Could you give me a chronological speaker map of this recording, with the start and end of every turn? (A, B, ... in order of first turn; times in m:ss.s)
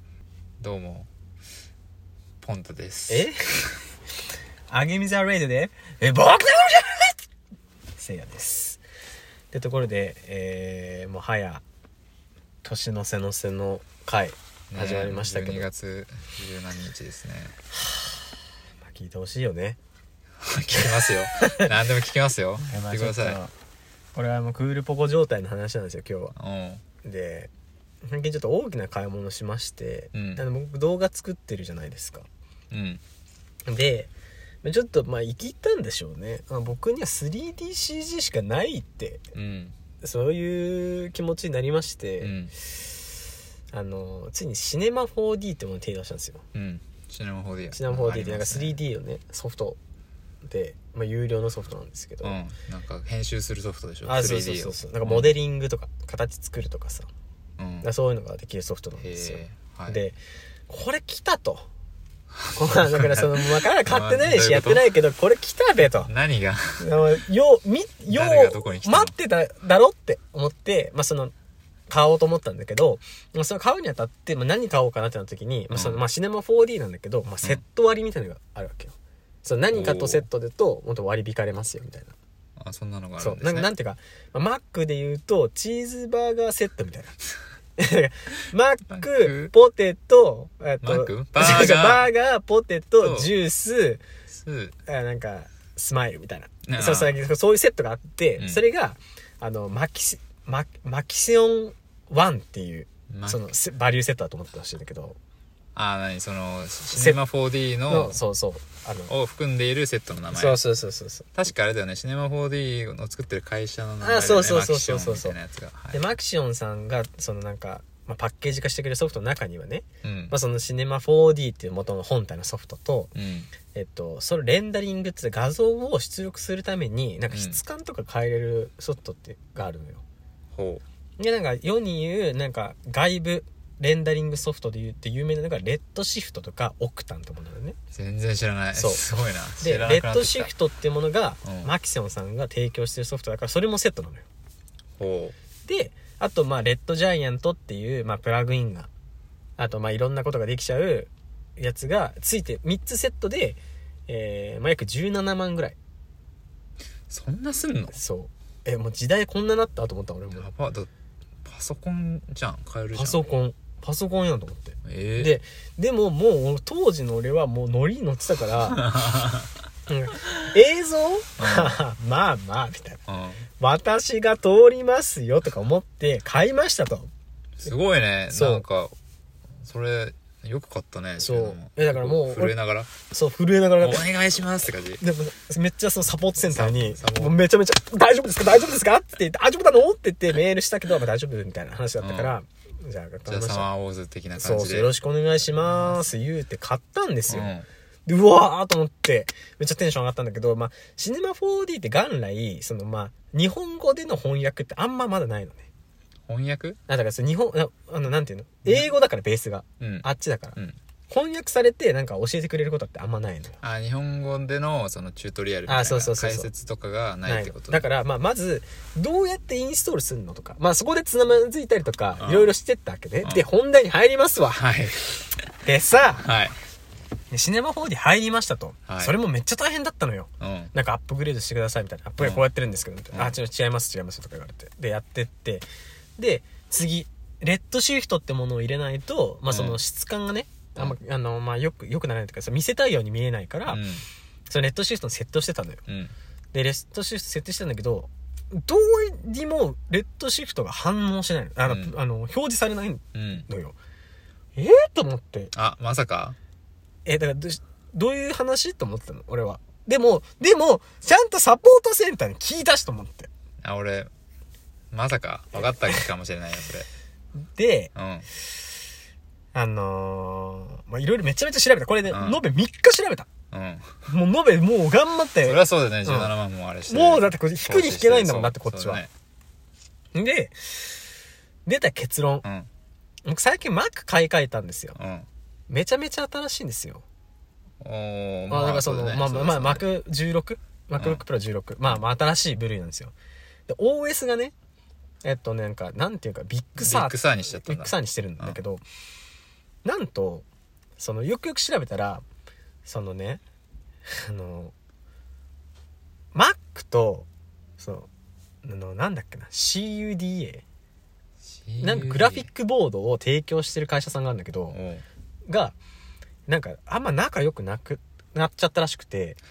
0:00.6-0:01.1 A
0:02.4-0:03.5 A
0:03.1-0:03.3 B
0:04.7-0:07.2 B
0:08.0-0:08.8 B
0:09.5-0:11.6 B
0:12.6-0:15.7 B
0:14.7-0:17.6 A
0:17.8-0:18.2 B
0:18.8-0:19.8 B
0:20.4-0:23.4 A
0:20.8-0:21.7 B
0:22.6-0:23.5 B
0:24.1-0:26.3 B
0:26.4-0:26.8 A
0:27.0-0:27.5 B
0:28.0-0:32.3 B
0:30.1-0:30.4 A
0:32.7-0:33.0 A
0:33.7-0:34.1 B
0:34.6-0:39.2 B
0:39.3-0:39.7 A
0:40.0-0:42.3 B
0:42.2-0:42.5 A
0:43.7-0:46.4 B
0:46.5-0:48.8 A
0:47.7-0:49.8 B
0:50.4-0:52.4 B
0:52.2-0:55.3 A
0:54.0-0:57.1 B
0:57.6-0:57.9 A
0:57.8-1:00.2 B
0:59.0-1:00.0 A
1:00.7-1:01.7 B
1:02.3-1:04.9 A
1:02.5-1:06.1 B
1:06.0-1:07.0 A
1:06.8-1:11.3 B
1:08.1-1:09.1 A
1:11.9-1:22.1 B
1:15.7-1:16.0 A
1:19.7-1:20.2 A
1:22.6-1:23.7 A
1:23.2-1:27.2 B
1:27.8-1:34.0 B
1:28.9-1:29.5 A
1:30.8-1:32.1 A
1:33.0-1:33.3 A
1:34.3-1:34.8 A
1:34.9-1:45.2 B
1:36.6-1:37.2 A
1:43.1-1:43.4 A
1:45.7-1:48.2 A
1:46.9-1:47.2 B
1:47.9-1:49.1 B
1:49.1-1:50.6 A
1:50.3-1:51.3 B
1:51.3-1:56.0 A
1:54.0-1:55.4 B
1:55.9-2:03.1 B
2:00.0-2:00.4 A
2:03.1-2:03.5 A
2:03.7-2:10.0 B
2:07.3-2:07.6 A
2:10.5-2:10.8 A
2:11.2-2:17.8 B
2:17.9-2:20.5 A
2:18.7-2:19.0 B
2:19.6-2:24.2 B
2:21.4-2:21.7 A
2:25.0-2:25.3 A
2:25.6-2:28.9 B
2:29.6-2:35.8 B
2:37.1-2:38.0 A
2:37.9-2:40.5 B
2:40.3-2:40.9 A
2:41.4-2:43.2 A
2:42.9-2:48.9 B
2:44.8-2:45.4 A
2:48.7-2:49.5 A
2:49.9-2:53.0 B
2:51.4-2:51.8 A
2:53.1-2:53.4 A
2:53.6-2:57.1 B
2:57.6-2:59.0 A
2:58.3-2:58.6 B
2:59.6-3:02.9 A
3:01.2-3:02.6 B
3:03.1-3:04.0 B
3:03.8-3:05.0 A
3:05.0-3:13.7 B
3:06.4-3:07.4 A
3:12.0-3:12.4 A
3:13.3-3:14.9 A
3:14.4-3:17.5 B
3:15.6-3:16.1 A
3:17.3-3:17.7 A
3:18.0-3:25.7 B
3:26.3-3:26.8 A
3:26.9-3:30.6 B
3:29.8-3:30.8 A
3:31.1-3:33.6 B
3:33.6-3:37.9 A
3:35.7-3:36.5 B
3:37.2-3:44.6 B
3:42.2-3:42.5 A
3:44.5-3:45.4 A
3:45.6-3:46.3 B
3:46.2-3:46.6 A
3:47.3-3:55.6 B
3:48.9-3:49.2 A
3:50.4-3:50.7 A
3:52.2-3:52.5 A
3:56.2-4:03.8 B
3:59.5-3:59.8 A
4:03.7-4:04.0 A
4:04.5-4:05.8 B
4:05.9-4:06.1 A
4:06.5-4:13.7 B
4:11.6-4:11.9 A
4:13.1-4:13.5 A
4:14.6-4:15.5 B
4:15.5-4:16.4 A
4:17.0-4:23.3 B
4:23.6-4:24.1 A
4:24.9-4:26.8 A
4:27.6-4:27.9 B
4:27.9-4:28.3 A
4:29.5-4:33.3 B
4:32.1-4:32.4 A
4:33.5-4:33.9 A
4:34.1-4:36.3 B
4:35.4-4:39.1 A
4:36.9-4:39.0 B
4:40.1-4:40.6 B
4:41.6-4:42.4 B
4:42.4-4:42.7 A
4:43.2-4:45.0 B
4:44.9-4:45.3 A
4:45.7-4:47.0 B
4:47.8-4:49.8 A
4:48.5-4:53.1 B
4:51.0-4:51.2 A
4:53.7-4:54.5 B
4:55.2-4:58.8 B
4:56.8-4:58.6 A
4:59.8-5:00.4 B
5:01.0-5:02.2 B
5:02.8-5:03.4 B
5:04.2-5:04.7 B
5:06.3-5:07.3 B
5:07.8-5:08.1 B
5:08.6-5:10.6 B
5:11.6-5:12.5 A
5:11.8-5:14.8 B
5:14.7-5:15.0 A
5:15.5-5:15.7 B
5:16.5-5:19.4 B